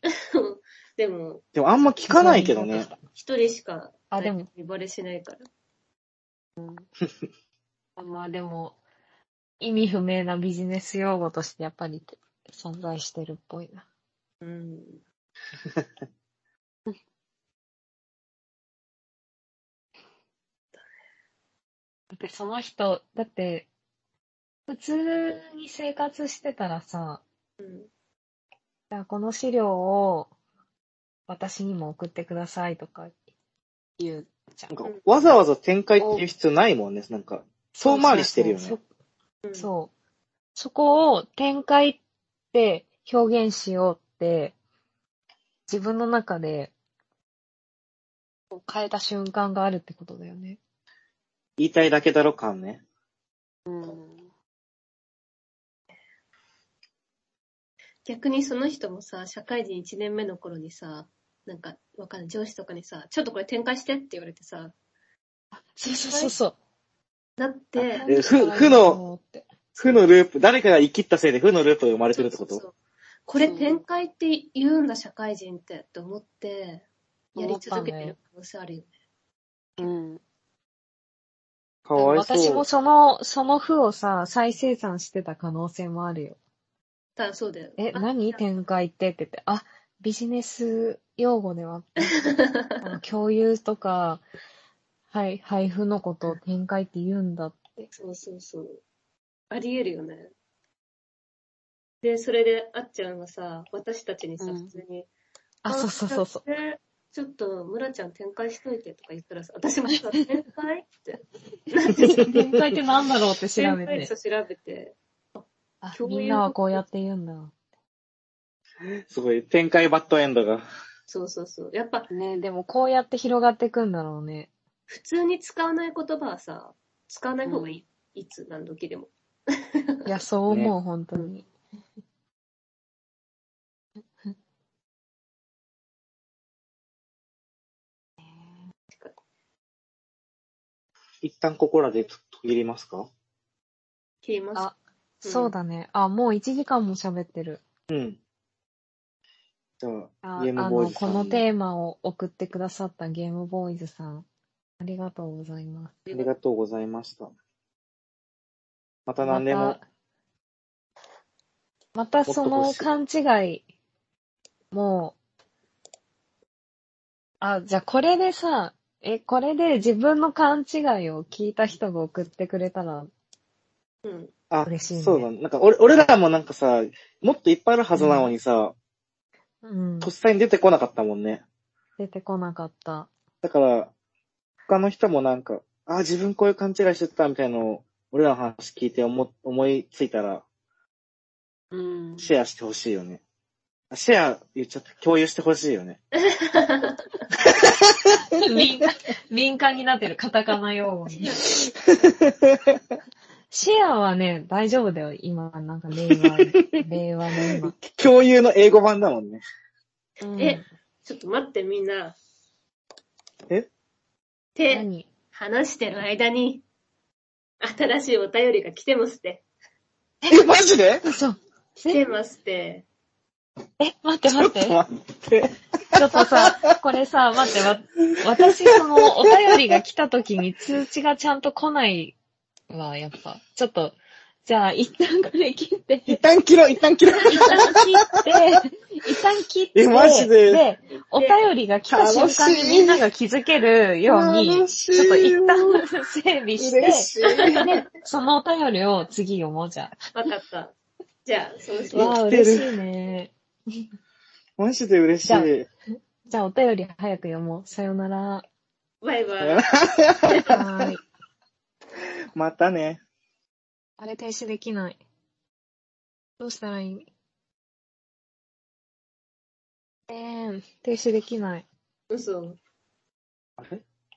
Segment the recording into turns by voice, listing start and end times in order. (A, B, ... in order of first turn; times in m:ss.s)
0:00.3-0:01.4 A
0:01.6-0:02.9 B
0:02.1-0:03.0 C
0:03.2-0:05.4 A
0:04.1-0:04.5 C
0:06.6-0:06.8 D
0:08.0-0:08.8 C
0:09.6-0:13.8 C
0:14.4-0:15.0 A
0:22.1-0:23.7 C
0:24.7-0:27.2 C
0:27.6-0:27.9 A
0:28.9-0:30.3 C
0:31.3-0:33.1 C
0:34.0-0:34.7 C
0:34.7-0:38.8 B
0:36.0-0:36.3 C
0:37.8-0:38.8 C
0:39.4-0:39.7 A
0:39.6-0:39.9 C
0:40.6-0:42.0 C
0:42.5-0:44.6 C
0:45.7-0:46.7 C
0:48.5-0:50.6 C
0:51.6-0:52.8 B
0:53.7-0:54.3 D
0:58.0-1:04.7 A
1:05.6-1:06.6 C
1:05.9-1:06.4 A
1:07.4-1:08.0 A
1:07.8-1:09.5 C
1:08.1-1:09.0 B
1:09.7-1:10.1 A
1:09.8-1:12.6 B
1:12.1-1:12.8 A
1:13.3-1:18.9 A
1:13.4-1:13.8 D
1:17.4-1:17.8 D
1:17.6-1:18.2 C
1:19.8-1:20.2 D
1:21.9-1:22.6 B
1:22.0-1:26.4 C
1:27.2-1:28.4 A
1:27.8-1:34.2 C
1:32.1-1:32.8 A
1:35.1-1:37.9 C
1:37.9-1:38.8 A
1:39.5-1:40.3 A
1:42.0-1:45.1 A
1:44.4-1:44.7 D
1:45.6-1:46.4 C
1:45.7-1:52.3 A
1:52.0-1:54.1 C
1:52.0-1:52.4 B
1:53.6-1:56.8 A
1:55.8-1:57.5 C
1:58.8-2:00.7 B
2:01.1-2:02.1 A
2:02.1-2:04.5 C
2:04.9-2:10.1 A
2:07.5-2:07.8 D
2:10.1-2:11.5 C
2:21.2-2:23.1 B
2:24.2-2:25.5 A
2:24.6-2:27.6 C
2:27.9-2:28.2 B
2:29.8-2:31.4 B
2:30.2-2:34.3 C
2:34.8-2:36.0 C
2:36.1-2:37.3 B
2:39.1-2:39.8 B
2:39.2-2:39.8 C
2:42.0-2:43.6 C
2:42.3-2:42.9 B
2:44.7-2:45.2 C
2:47.4-2:53.1 C
2:54.0-2:54.3 A
2:54.5-2:58.7 B
2:54.6-2:55.3 C
2:58.0-2:58.3 C
2:59.6-3:00.1 C
3:00.0-3:01.4 B
3:02.0-3:03.1 C
3:03.4-3:03.9 B
3:04.7-3:10.4 B
3:11.7-3:12.3 D
3:12.2-3:13.2 B
3:13.9-3:16.0 B
3:16.3-3:17.0 A
3:17.4-3:18.6 B
3:18.4-3:21.3 C
3:21.1-3:21.7 A
3:21.9-3:22.8 B
3:23.5-3:27.7 C
3:26.1-3:26.8 B
3:27.5-3:29.4 B
3:30.2-3:30.6 C
3:30.4-3:32.2 A
3:34.6-3:36.6 A
3:34.7-3:35.1 C
3:37.6-3:39.4 A
3:40.3-3:41.0 B
3:41.0-3:42.0 C
3:41.9-3:42.9 A
3:43.8-3:44.8 C
3:44.3-3:46.8 B
3:46.0-3:52.2 C
3:47.6-3:49.8 B
3:52.7-3:56.2 C
3:56.1-3:57.9 B
3:57.3-4:10.0 C
3:59.8-4:00.6 B
4:01.0-4:01.4 A
4:01.9-4:03.0 B
4:04.0-4:05.8 B
4:06.6-4:07.7 B
4:10.1-4:10.7 A
4:11.2-4:12.2 A
4:11.9-4:12.7 B
4:11.9-4:13.3 C
4:14.6-4:15.7 B
4:16.3-4:18.5 C
4:19.0-4:19.6 A
4:19.4-4:20.9 B
4:20.3-4:20.6 A
4:20.5-4:21.0 C
4:22.4-4:23.0 B
4:24.0-4:25.0 C
4:26.4-4:27.1 C
4:30.1-4:31.6 C
4:32.1-4:32.6 A
4:33.6-4:33.8 B